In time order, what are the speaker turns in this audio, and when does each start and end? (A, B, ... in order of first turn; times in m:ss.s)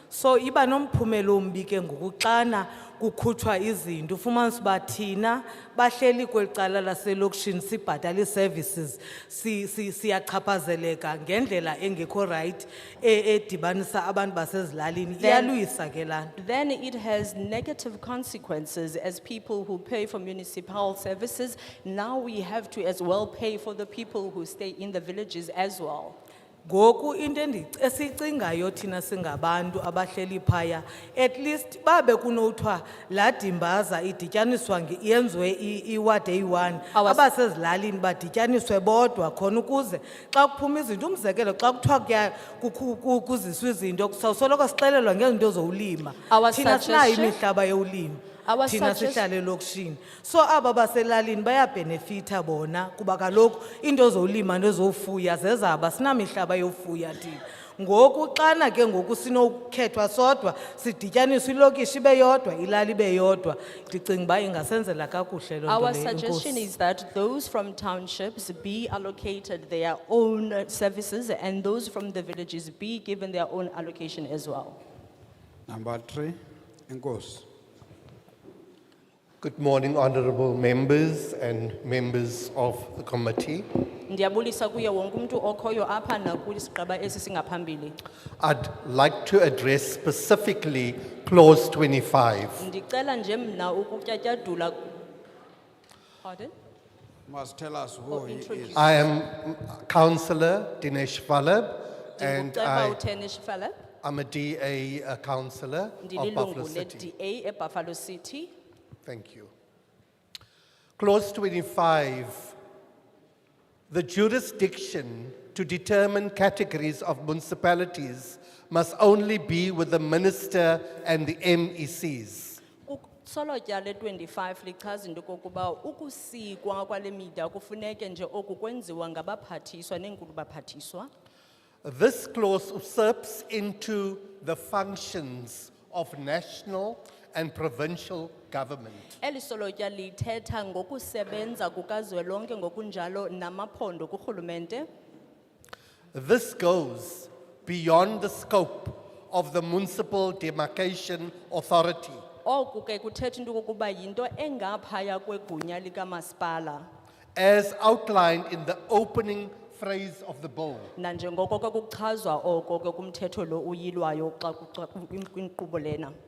0:00.1-0:16.3 A
0:15.2-0:15.6 B
0:16.4-0:26.2 B
0:26.6-1:06.7 A
0:36.9-0:37.2 B
0:46.3-0:47.4 B
0:48.4-0:49.3 B
1:05.6-1:14.8 B
1:15.7-1:17.4 C
1:19.4-1:23.7 D
1:24.1-1:28.0 B
1:28.4-1:32.6 D
1:32.6-1:34.9 B
1:36.2-1:36.5 B
1:37.3-1:38.8 C
1:38.1-1:39.1 B
1:38.7-1:43.0 D
1:42.2-1:43.7 B
1:44.0-1:47.1 D
1:46.0-1:48.5 B
1:49.0-1:49.5 D
1:51.0-1:52.6 D
1:53.9-2:02.6 D
2:02.8-2:11.1 B
2:11.8-2:19.1 D
2:19.2-2:24.9 B
2:26.1-2:32.2 D
2:32.4-2:36.9 B
2:37.3-2:40.9 D
2:41.0-2:46.1 B